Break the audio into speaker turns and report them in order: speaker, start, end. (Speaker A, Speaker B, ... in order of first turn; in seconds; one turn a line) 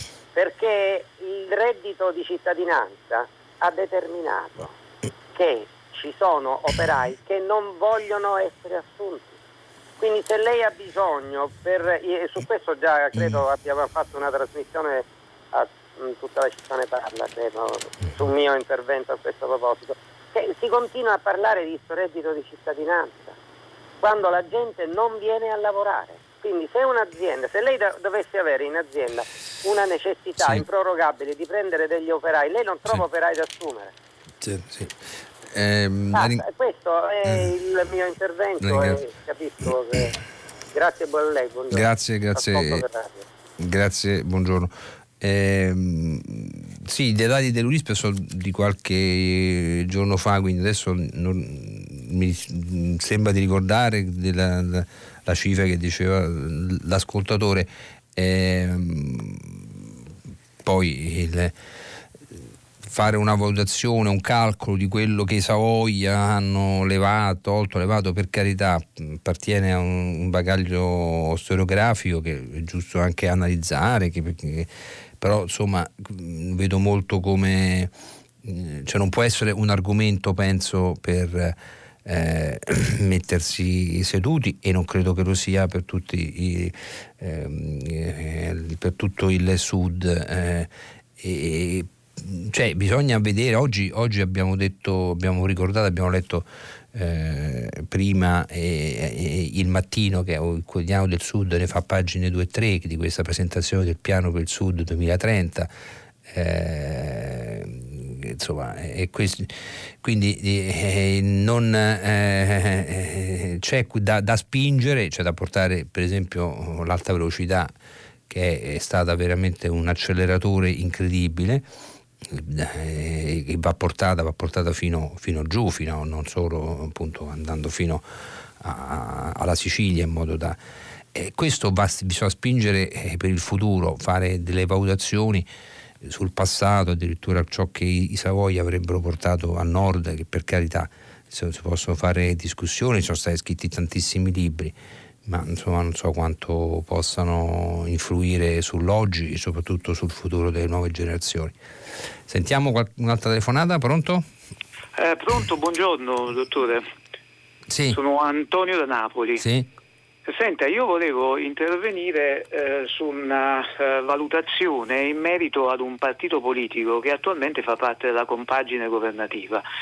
Speaker A: 0.3-4.7
Speaker A: 5.3-9.3
Speaker A: 10.0-23.4
Speaker A: 24.0-33.9
Speaker B: 34.4-34.9
Speaker B: 35.5-36.4
Speaker A: 36.1-40.2
Speaker B: 38.6-39.0
Speaker A: 40.7-43.2
Speaker B: 41.7-42.8
Speaker B: 43.6-59.7
Speaker B: 60.6-61.5
Speaker B: 62.8-74.7
Speaker B: 75.2-77.9
Speaker B: 78.4-90.7
Speaker B: 91.2-105.7
Speaker B: 106.3-117.7
Speaker B: 118.3-121.6
Speaker B: 122.3-128.1
Speaker B: 128.6-130.6
Speaker B: 131.1-135.4
Speaker B: 136.0-151.6
Speaker B: 152.3-154.2
Speaker C: 154.9-156.9
Speaker B: 157.7-158.0
Speaker C: 157.9-159.4
Speaker B: 159.4-159.7
Speaker C: 160.3-169.6